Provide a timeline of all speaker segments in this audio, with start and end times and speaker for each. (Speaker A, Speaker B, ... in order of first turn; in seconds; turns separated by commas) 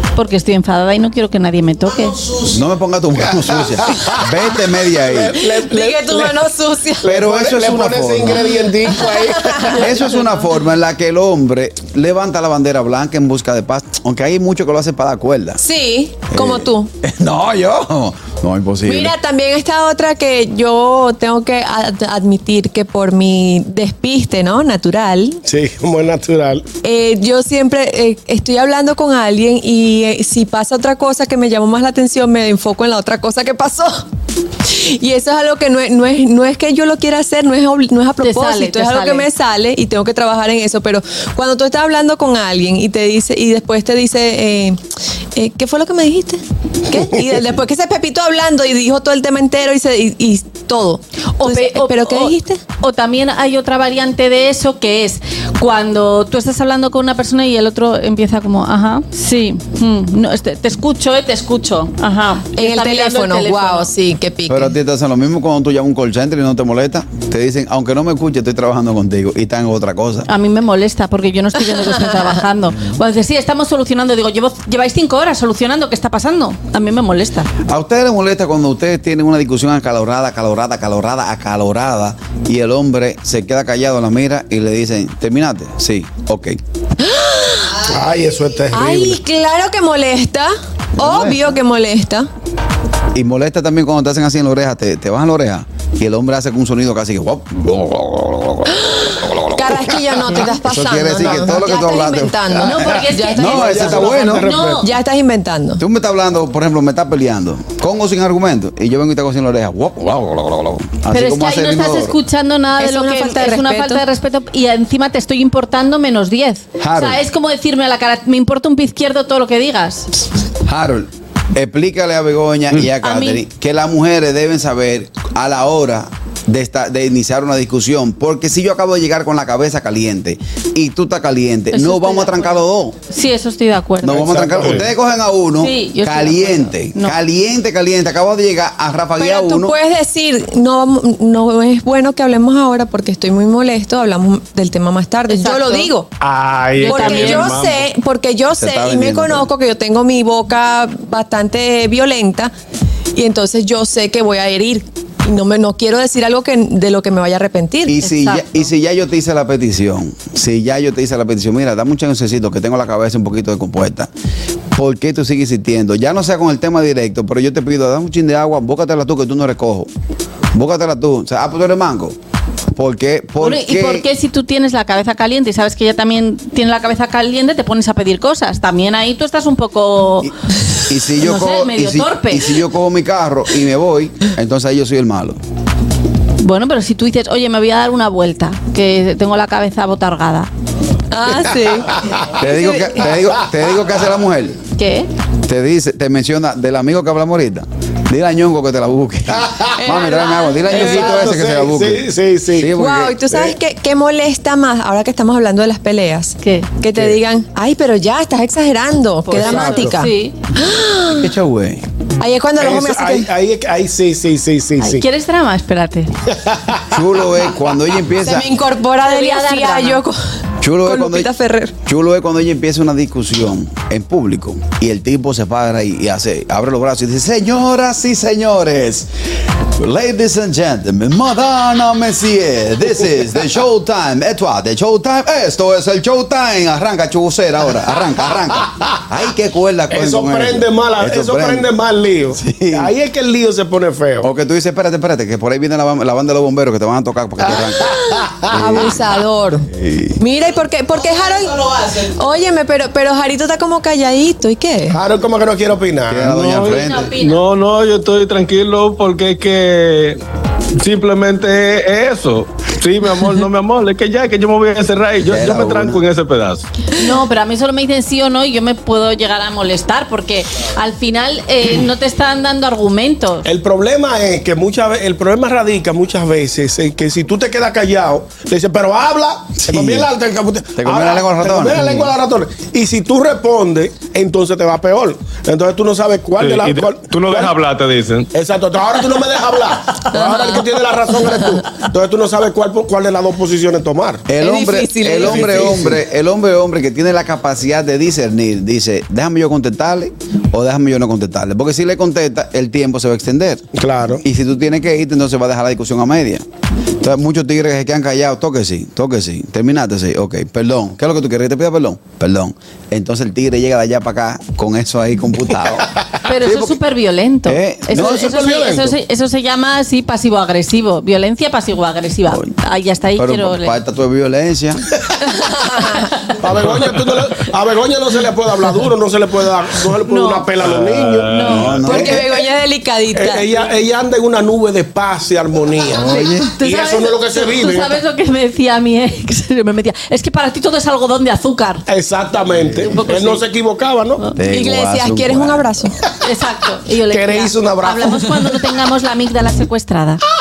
Speaker A: 0.1-2.2, Speaker B: 2.4-5.4, Speaker C: 3.5-4.3, Speaker C: 4.9-6.5, Speaker D: 5.4-7.2, Speaker C: 7.0-10.1, Speaker B: 7.0-8.5, Speaker D: 8.3-9.8, Speaker B: 9.7-15.6, Speaker D: 15.6-16.9, Speaker B: 16.3-19.2, Speaker D: 18.9-25.4, Speaker C: 25.5-26.6, Speaker D: 26.8-34.0, Speaker D: 34.6-44.8, Speaker A: 38.2-39.3, Speaker D: 45.4-52.6, Speaker A: 51.4-63.9, Speaker D: 62.5-64.8, Speaker B: 64.5-70.3, Speaker A: 70.3-77.5, Speaker D: 71.8-72.1, Speaker B: 77.7-86.6, Speaker D: 87.0-87.9, Speaker C: 87.9-89.2, Speaker D: 88.7-92.3, Speaker B: 91.0-91.6, Speaker B: 93.2-104.5, Speaker D: 98.7-104.0, Speaker A: 102.6-104.9, Speaker C: 103.5-104.9, Speaker D: 104.8-105.8, Speaker B: 105.8-112.2, Speaker A: 111.1-120.1, Speaker D: 112.8-114.0, Speaker B: 116.8-117.2, Speaker B: 120.7-133.0, Speaker A: 123.0-123.4, Speaker A: 131.7-134.3, Speaker B: 134.0-139.8, Speaker C: 134.1-134.9, Speaker A: 135.6-137.2, Speaker D: 139.2-146.1, Speaker A: 145.3-145.9, Speaker E: 146.2-147.9, Speaker A: 146.8-147.3, Speaker D: 146.8-152.5, Speaker B: 148.6-149.5, Speaker D: 153.2-158.0, Speaker B: 157.9-164.1, Speaker A: 158.0-158.7, Speaker B: 164.8-169.9, Speaker B: 170.5-172.2, Speaker B: 172.8-174.1, Speaker A: 173.4-180.3, Speaker B: 180.8-185.4, Speaker A: 181.2-182.7, Speaker A: 186.4-190.5, Speaker D: 191.1-193.1, Speaker B: 192.4-194.6, Speaker A: 194.8-195.1, Speaker B: 195.5-203.2, Speaker D: 199.8-201.4, Speaker C: 200.7-202.7, Speaker D: 202.7-211.3, Speaker A: 206.4-206.7, Speaker C: 206.9-207.2, Speaker A: 209.3-210.4, Speaker C: 209.3-210.1, Speaker B: 211.1-211.8, Speaker D: 212.2-213.3, Speaker C: 212.6-215.1, Speaker A: 214.8-216.1, Speaker C: 216.3-217.0, Speaker B: 216.9-218.5, Speaker D: 218.2-220.2, Speaker A: 219.0-220.0, Speaker B: 220.6-221.3, Speaker D: 220.8-221.7, Speaker B: 221.9-229.1, Speaker B: 229.8-241.7, Speaker C: 239.9-244.3, Speaker B: 242.3-242.9, Speaker B: 244.2-248.0, Speaker D: 247.8-255.0, Speaker B: 248.5-248.9, Speaker B: 249.7-250.2, Speaker C: 254.9-256.4, Speaker B: 256.1-257.1, Speaker E: 256.3-260.2, Speaker A: 256.6-257.4, Speaker E: 260.8-266.6, Speaker B: 265.2-266.0, Speaker A: 266.9-273.4, Speaker C: 273.5-287.6, Speaker B: 279.6-280.1, Speaker B: 280.8-282.1, Speaker E: 286.4-288.3, Speaker C: 288.3-294.3, Speaker D: 290.1-290.6, Speaker B: 294.3-303.6, Speaker D: 294.4-296.0, Speaker C: 303.8-304.2, Speaker B: 304.2-306.4, Speaker B: 307.0-316.8, Speaker A: 316.2-323.8, Speaker B: 317.5-318.3, Speaker C: 317.9-318.9, Speaker B: 322.3-322.5, Speaker B: 323.2-324.9, Speaker D: 325.3-326.1, Speaker A: 326.0-326.2, Speaker C: 326.4-332.4, Speaker E: 326.6-327.1, Speaker A: 330.1-330.5, Speaker E: 330.6-332.1, Speaker A: 331.3-331.8, Speaker B: 331.4-332.2, Speaker D: 331.8-333.5, Speaker C: 333.1-338.0, Speaker B: 335.9-336.5, Speaker A: 335.9-341.8, Speaker C: 341.9-344.3, Speaker A: 342.7-343.4, Speaker B: 344.4-345.7, Speaker D: 344.4-346.0, Speaker A: 346.2-350.2, Speaker C: 347.1-348.6